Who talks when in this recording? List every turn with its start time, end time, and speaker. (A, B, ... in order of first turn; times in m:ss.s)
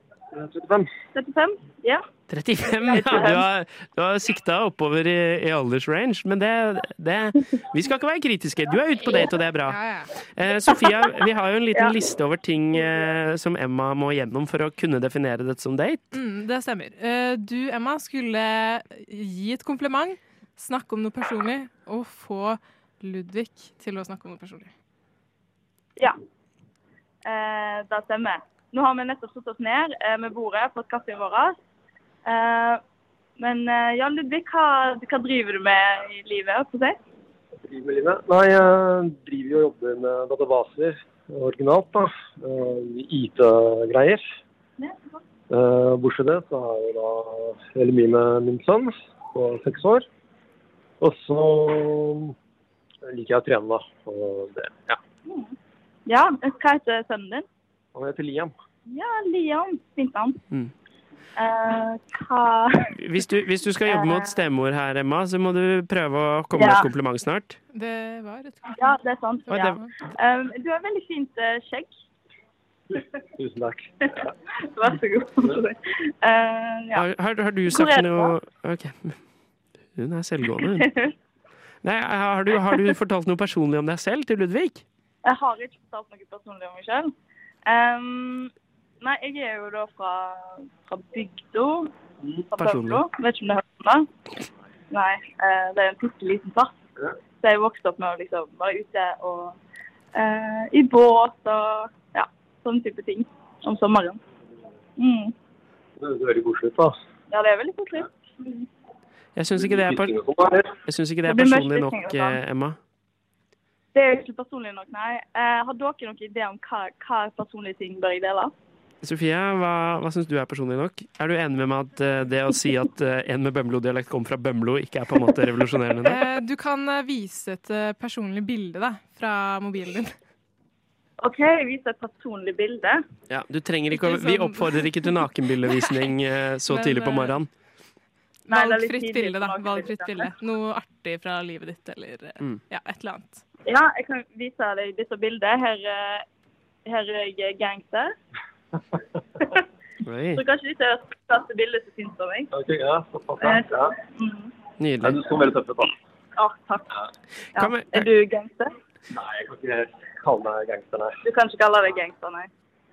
0:00.3-0:00.9 A
0:01.1-0:02.0 B
0:02.3-0:09.8 C
0:02.9-0:03.5 B
0:09.6-0:10.1 D
0:10.3-0:16.0 C
0:16.1-0:24.7 D
0:27.2-0:31.6 B
0:32.2-0:32.8 B
0:33.4-0:37.0 B
0:37.7-0:44.2 A
0:44.8-0:45.2 B
0:45.5-0:50.0 A
0:51.0-0:52.3 A
0:53.0-0:55.0 A
0:55.2-0:55.5 B
0:56.0-0:57.4 B
0:57.9-0:58.5 A
0:58.8-1:00.4 B
1:01.4-1:02.9 B
1:03.0-1:07.6 C
1:03.8-1:04.4 B
1:06.5-1:06.9 B
1:07.7-1:08.9 D
1:08.8-1:11.9 B
1:09.5-1:09.9 D
1:09.5-1:09.8 C
1:13.4-1:13.9 A
1:14.7-1:17.0 B
1:16.9-1:19.2 C
1:17.6-1:18.3 B
1:19.9-1:20.9 C
1:20.7-1:21.1 B
1:21.8-1:24.8 C
1:25.2-1:27.1 B
1:27.6-1:31.9 B
1:32.5-1:34.1 B
1:32.6-1:33.0 C
1:34.9-1:36.7 B
1:37.4-1:39.6 B
1:40.1-1:44.2 B
1:45.0-1:45.3 B
1:46.0-1:46.9 A
1:47.3-1:48.7 B
1:49.3-1:50.2 C
1:49.6-1:50.7 A
1:50.8-1:52.8 C
1:51.2-1:52.4 B
1:53.9-1:58.5 B
1:59.0-2:06.2 C
2:06.0-2:10.1 D
2:11.2-2:13.0 B
2:13.3-2:17.5 C
2:13.9-2:15.0 D
2:15.7-2:16.0 D
2:16.7-2:17.3 D
2:18.5-2:23.4 D
2:18.5-2:20.3 B
2:23.6-2:26.2 B
2:26.8-2:28.1 B
2:30.0-2:30.4 C
2:30.3-2:32.5 B
2:32.5-2:33.9 A
2:33.4-2:34.5 B
2:34.8-2:35.2 C
2:35.0-2:35.9 A
2:36.4-2:36.9 B
2:37.5-2:38.7 B
2:37.6-2:38.1 C
2:39.1-2:41.2 A
2:41.2-2:42.5 B